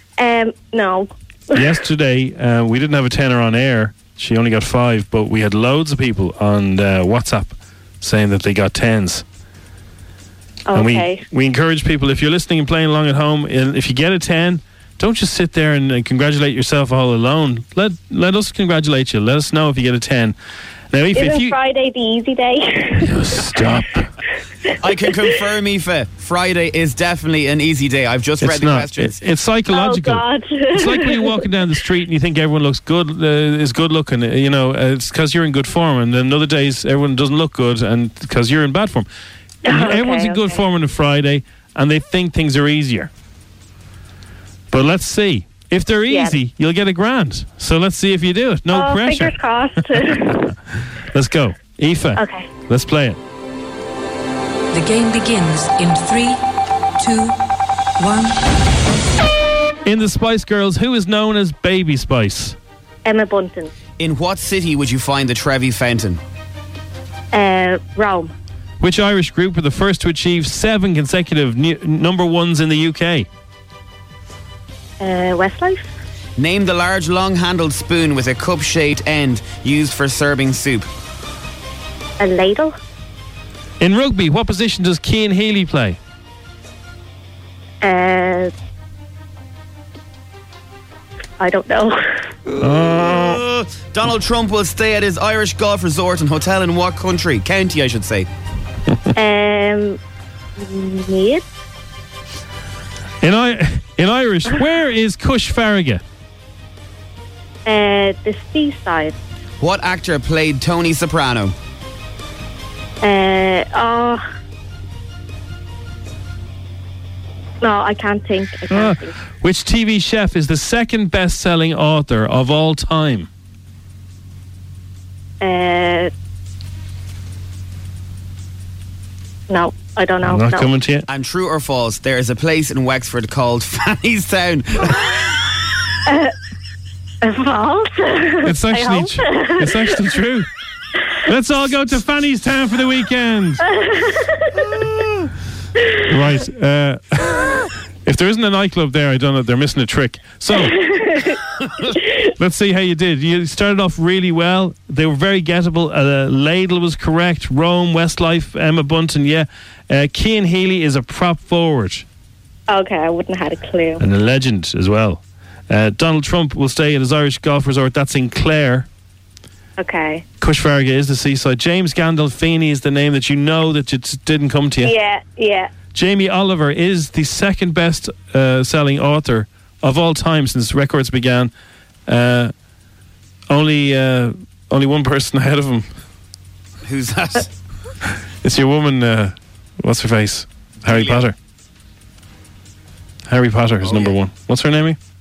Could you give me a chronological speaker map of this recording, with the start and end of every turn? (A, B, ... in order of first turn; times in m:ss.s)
0:00.2-0:01.7 A
0:01.6-0:09.2 B
0:10.7-0:11.2 A
0:10.7-0:20.4 B
0:20.9-0:21.6 B
0:21.1-0:23.2 A
0:23.0-0:24.1 B
0:24.8-0:29.2 C
0:28.4-0:39.1 B
0:29.7-0:31.5 A
0:39.7-0:40.6 A
0:39.7-0:43.1 B
0:44.7-0:49.4 B
0:46.1-0:46.4 A
0:48.7-0:50.5 A
0:51.1-0:53.2 B
0:52.2-0:52.5 A
0:54.7-0:56.4 D
0:57.0-0:57.4 D
0:58.0-0:58.4 D
0:59.8-1:02.6 B
1:03.0-1:03.7 A
1:04.0-1:06.2 C
1:07.3-1:08.3 A
1:08.8-1:13.3 B
1:15.0-1:15.9 A
1:16.4-1:20.9 C
1:22.2-1:22.8 A
1:23.8-1:26.0 B
1:27.8-1:28.5 A
1:31.4-1:32.3 A
1:32.5-1:38.3 C
1:32.6-1:33.4 B
1:39.2-1:40.0 A
1:40.6-1:41.4 A
1:43.2-1:46.0 B
1:47.7-1:49.2 A
1:49.6-1:51.5 C
1:53.0-1:54.2 A
1:57.6-1:59.2 A
1:58.7-2:03.3 B
2:05.4-2:06.1 A
2:09.5-2:10.7 A
2:10.3-2:11.1 B
2:11.1-2:15.0 C
2:16.1-2:16.3 A
2:17.2-2:20.2 A
2:18.4-2:20.5 B
2:21.3-2:23.6 B
2:23.6-2:24.6 A
2:26.1-2:30.8 B
2:30.5-2:31.4 A
2:32.0-2:32.3 A
2:32.4-2:42.1 B
2:42.7-2:44.0 A
2:44.0-2:48.9 B
2:49.8-2:50.2 A
2:50.4-2:54.9 B
2:54.8-2:55.7 A
2:55.9-3:01.5 B
3:02.1-3:02.5 B
3:03.5-3:06.0 B
3:06.9-3:07.5 C
3:08.4-3:11.4 B
3:10.9-3:11.3 C
3:13.3-3:15.0 B
3:13.8-3:14.2 C